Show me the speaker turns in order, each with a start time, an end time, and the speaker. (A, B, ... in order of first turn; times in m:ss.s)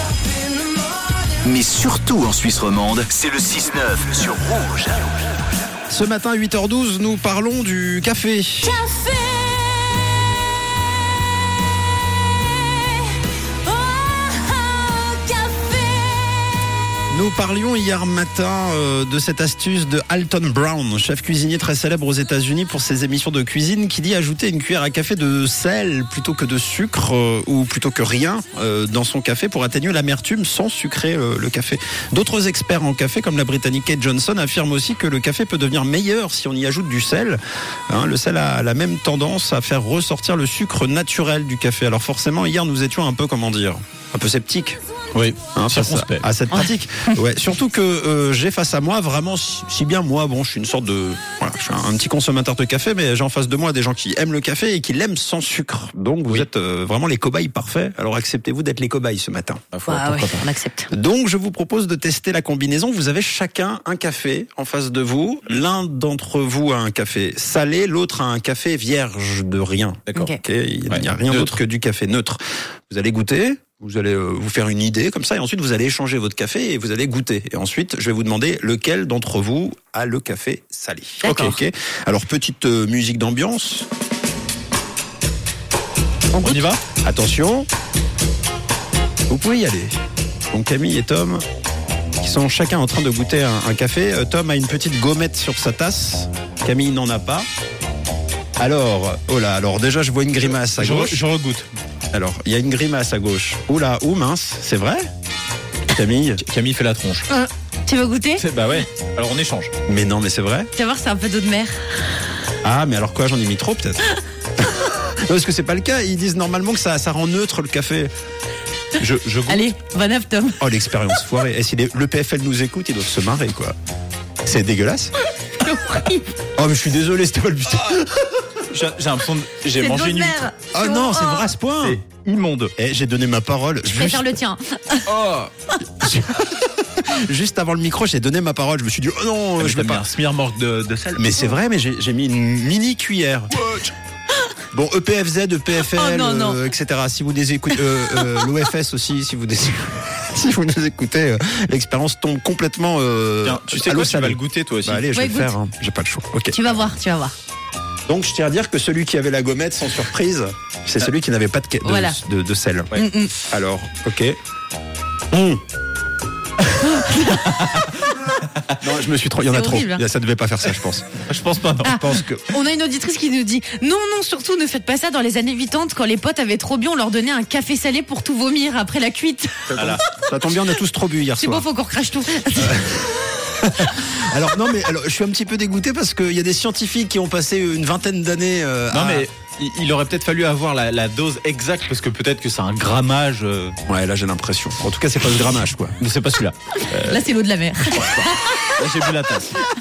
0:01.4-0:05.2 A
0:01.6-0:03.1 B
0:05.9-0:08.9 C
0:08.8-0:09.7 D
0:13.7-0:16.3 D
0:17.1-0:44.8 C
0:45.1-0:46.2 B
0:45.6-0:59.6 C
0:59.7-1:00.5 B
0:59.9-1:00.9 D
1:00.9-1:23.9 C
1:10.9-1:11.6 B
1:21.2-1:21.6 B
1:26.4-1:26.8 B
1:26.5-1:27.7 C
1:29.3-1:30.0 C
1:30.5-1:31.4 C
1:32.2-1:37.5 C
1:38.6-1:41.2 C
1:40.6-1:41.7 B
1:42.1-1:45.1 C
1:45.9-1:46.4 C
1:46.4-1:47.3 B
1:47.9-1:48.4 D
1:48.4-1:49.7 B
1:49.9-1:50.7 C
1:50.8-1:52.0 D
1:52.6-1:58.1 C
1:59.0-1:59.6 C
1:59.4-1:59.7 B
1:59.5-2:00.6 D
2:00.6-2:03.8 C
2:04.4-2:05.1 C
2:05.6-2:06.3 D
2:06.6-2:08.3 C
2:08.7-2:10.5 B
2:09.8-2:11.5 D
2:10.7-2:12.0 C
2:11.8-2:12.7 B
2:12.8-2:14.3 C
2:13.8-2:15.1 D
2:15.1-2:20.0 C
2:19.6-2:21.5 B
2:21.2-2:23.9 C
2:24.7-2:36.8 C
2:25.9-2:26.7 D
2:33.4-2:35.1 B
2:35.1-2:35.6 D
2:36.5-2:37.3 D
2:38.1-2:44.4 C
2:41.8-2:42.2 D
2:43.0-2:43.3 D
2:45.3-2:45.6 C
2:46.8-2:48.8 B
2:46.8-2:47.4 D
2:48.8-2:51.2 C
2:49.5-2:50.0 D
2:51.3-2:52.0 B
2:51.8-3:00.0 D
2:51.9-2:52.5 C
2:59.7-3:00.0 B
3:00.0-3:01.7 C
3:01.4-3:02.9 D
3:02.6-3:09.3 C
3:08.9-3:13.8 B
3:13.9-3:16.0 C
3:16.0-3:17.3 B
3:16.9-3:18.7 D
3:17.9-3:19.7 B